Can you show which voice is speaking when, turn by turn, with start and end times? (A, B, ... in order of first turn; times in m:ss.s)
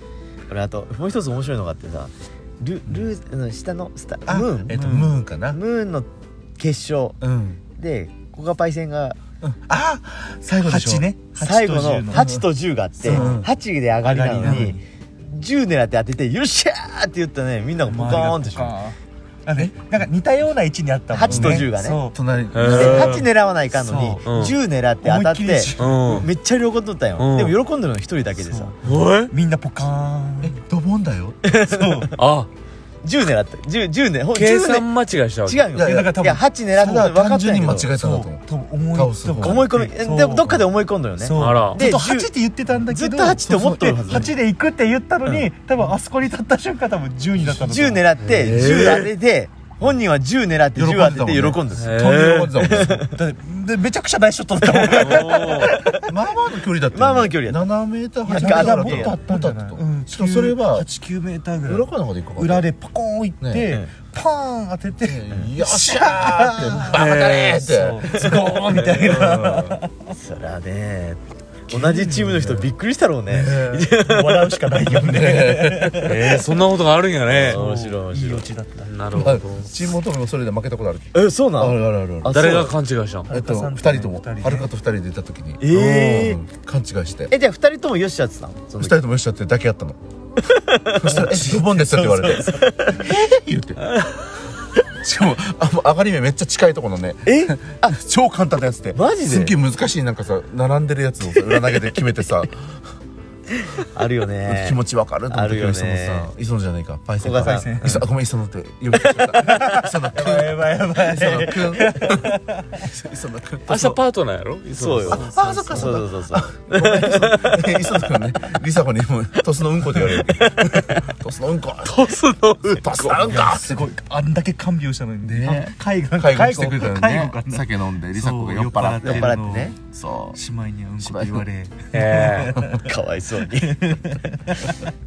0:00.5-0:04.9 A
0:04.3-0:05.6 B
0:04.7-0:05.1 C
0:05.5-0:07.2 A
0:07.2-0:07.6 B
0:07.8-0:09.2 A
0:09.4-0:11.0 B
0:10.6-0:12.4 C
0:11.4-0:18.8 A
0:12.1-0:12.4 B
0:13.0-0:13.4 C
0:13.0-0:13.5 B
0:14.0-0:14.8 C
0:17.9-0:22.2 C
0:21.1-0:22.0 A
0:21.2-0:23.2 B
0:22.5-0:23.3 D
0:22.6-0:28.7 A
0:23.7-0:24.5 C
0:24.2-0:24.6 D
0:25.0-0:26.2 C
0:25.8-0:26.3 D
0:27.2-0:27.6 D
0:28.4-0:30.6 C
0:28.8-0:29.3 D
0:30.4-0:31.4 B
0:31.5-0:32.1 A
0:31.6-0:32.1 C
0:32.2-0:32.5 D
0:33.0-0:34.9 A
0:34.3-0:35.7 D
0:35.4-0:37.9 A
0:35.7-0:39.7 B
0:35.7-0:36.4 C
0:37.8-0:40.6 C
0:39.4-0:42.3 A
0:41.2-0:48.1 C
0:41.4-0:41.8 D
0:42.9-0:44.3 A
0:47.4-0:53.2 A
0:48.2-0:49.1 D
0:50.7-0:53.0 B
0:51.7-0:52.7 D
0:53.1-0:56.1 C
0:54.6-0:55.7 A
0:54.9-0:55.7 D
0:55.9-1:00.9 B
0:56.9-0:57.6 A
0:58.2-0:59.2 A
0:58.2-1:07.0 C
1:01.6-1:02.6 B
1:03.4-1:03.7 B
1:05.0-1:08.1 B
1:06.9-1:09.3 D
1:07.5-1:10.1 C
1:09.0-1:09.8 B
1:10.1-1:14.8 A
1:11.7-1:12.4 C
1:12.1-1:12.7 B
1:13.3-1:14.0 B
1:13.9-1:16.4 C
1:14.8-1:16.3 B
1:15.9-1:17.6 D
1:17.3-1:18.5 A
1:17.5-1:19.4 C
1:18.8-1:19.8 D
1:19.1-1:22.7 B
1:21.1-1:22.7 A
1:22.3-1:23.3 D
1:23.3-1:24.7 C
1:23.3-1:27.3 B
1:25.6-1:26.4 A
1:27.3-1:29.0 A
1:28.8-1:30.0 B
1:30.4-1:31.3 A
1:31.0-1:33.9 B
1:31.0-1:32.7 C
1:32.4-1:33.0 A
1:33.9-1:34.1 D
1:34.7-1:42.8 B
1:37.2-1:38.0 A
1:38.9-1:39.5 A
1:43.8-1:44.8 A
1:44.4-1:54.0 B
1:45.3-1:46.3 A
1:47.2-1:48.0 A
1:47.3-1:48.0 C
1:49.1-1:52.9 C
1:53.7-1:55.4 D
1:54.7-1:57.8 A
1:55.1-1:56.0 C
1:55.1-2:03.8 B
2:00.2-2:01.0 A
2:01.8-2:03.4 D
2:03.2-2:09.7 C
2:05.2-2:10.4 B
2:09.0-2:09.8 A
2:10.3-2:12.9 C
2:11.0-2:11.5 B
2:11.9-2:12.6 D
2:12.4-2:12.9 B
2:12.8-2:14.3 A
2:13.6-2:14.8 C